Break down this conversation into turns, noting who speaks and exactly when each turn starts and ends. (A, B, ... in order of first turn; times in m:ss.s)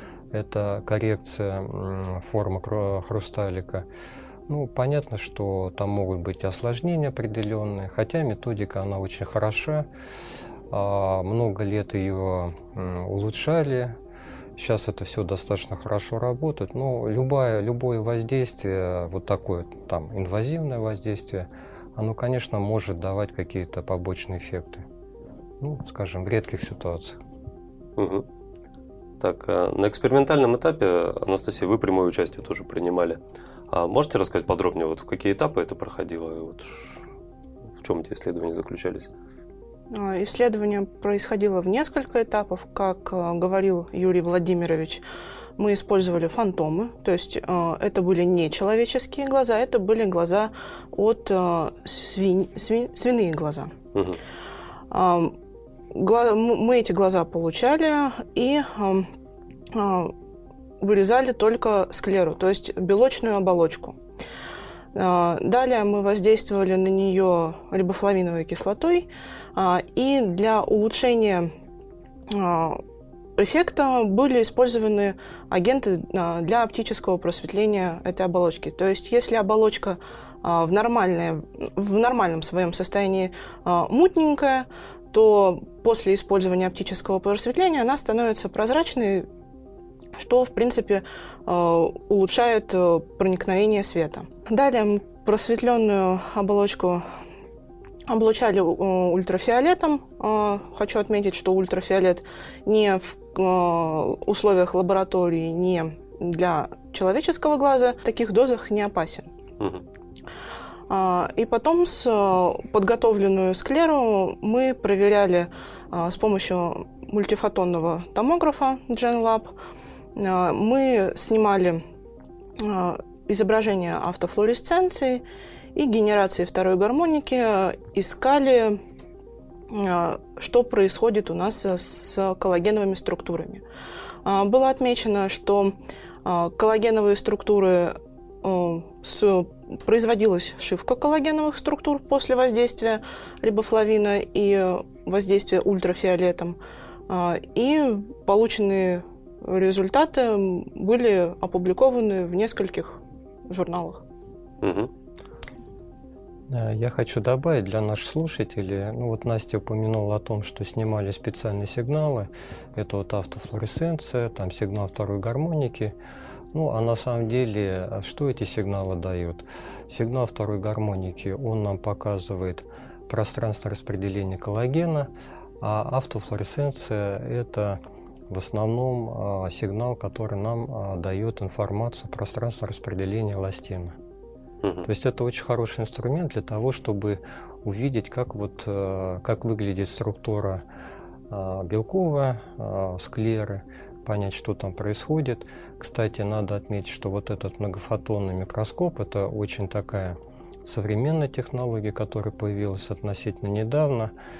0:00.3-0:03.8 A
0:04.5-0:09.9 A
0:10.7-0:13.9 A
0:14.6-0:24.8 A
0:25.6-0:27.2 A
0:28.0-0:28.2 B
0:29.2-0:33.2 B
0:33.7-0:37.0 B
0:37.8-0:39.1 B
0:39.9-0:45.0 C
0:45.6-0:53.7 C
0:53.9-0:54.2 B
0:54.9-0:55.3 C
0:55.9-0:59.1 C
0:59.7-1:00.1 C
1:00.8-1:04.0 C
1:04.9-1:11.5 C
1:12.3-1:12.8 C
1:13.4-1:29.2 C
1:30.2-1:37.0 C
1:38.1-1:49.3 C
1:50.9-1:59.5 C
2:00.1-2:01.8 C
2:02.6-2:08.8 C
2:09.7-2:13.6 C
2:14.2-2:26.6 C
2:27.1-2:34.0 C
2:34.6-2:34.9 B
2:36.5-2:45.9 A
2:46.5-2:55.1 A
2:55.6-3:03.9 A
3:04.6-3:04.9 B
3:04.8-3:10.6 A
3:11.3-3:24.1 A